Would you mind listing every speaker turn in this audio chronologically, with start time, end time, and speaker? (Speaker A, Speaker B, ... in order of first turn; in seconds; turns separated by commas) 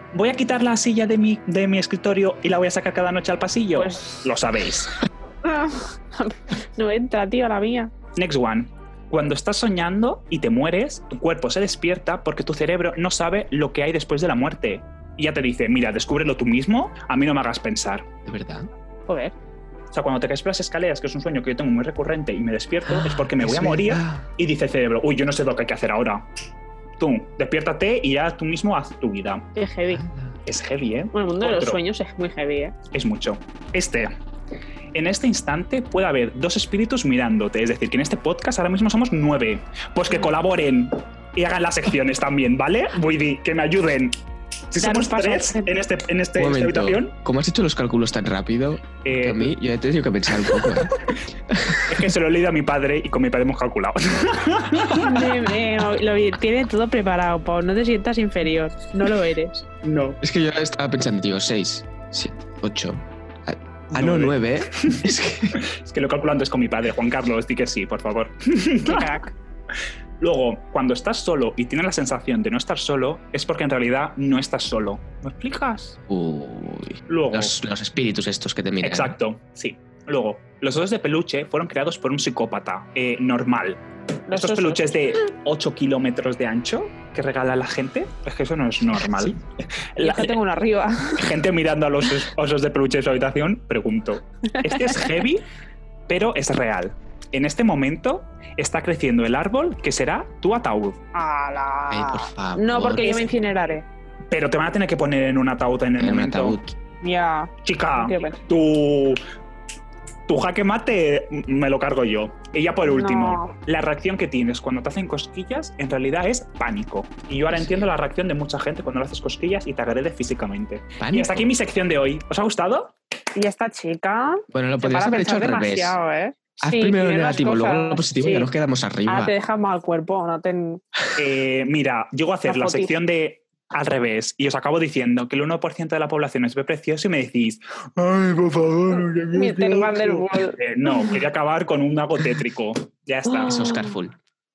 Speaker A: 0.1-5.0, Speaker B: 3.7-4.2, Speaker B: 5.4-7.9, Speaker A: 8.2-18.1, Speaker C: 18.2-18.7, Speaker B: 19.1-19.3, Speaker A: 19.9-26.2, Speaker C: 22.9-24.3, Speaker A: 27.0-29.4, Speaker B: 29.5-30.0, Speaker C: 29.9-30.4, Speaker A: 30.4-31.8, Speaker B: 31.1-32.7, Speaker A: 32.9-34.1, Speaker A: 34.9-44.1, Speaker A: 44.7-47.1, Speaker B: 44.8-45.7, Speaker C: 46.4-52.1, Speaker A: 49.0-49.5, Speaker A: 51.9-55.3, Speaker B: 54.9-59.6, Speaker A: 59.8-60.2, Speaker C: 60.2-65.6, Speaker A: 63.9-69.1, Speaker B: 68.8-69.3, Speaker A: 70.2-76.0, Speaker C: 76.1-79.2, Speaker A: 77.1-77.6, Speaker A: 78.8-83.8, Speaker B: 84.3-85.0, Speaker A: 84.3-89.4, Speaker A: 90.0-90.4, Speaker B: 90.0-91.3, Speaker A: 91.2-95.4, Speaker B: 94.5-95.0, Speaker A: 96.1-101.0, Speaker B: 101.1-103.8, Speaker C: 101.9-103.3, Speaker A: 104.3-106.6, Speaker C: 106.0-106.7, Speaker B: 107.0-108.4, Speaker A: 107.6-109.2, Speaker A: 110.3-122.9, Speaker B: 112.9-113.5, Speaker C: 117.5-117.9, Speaker C: 121.0-121.5, Speaker B: 123.3-128.5, Speaker C: 124.5-126.0, Speaker C: 126.6-129.3, Speaker B: 129.1-130.8, Speaker A: 131.2-143.7, Speaker B: 132.4-132.9, Speaker B: 139.3-141.1, Speaker B: 143.3-143.9, Speaker C: 143.4-144.2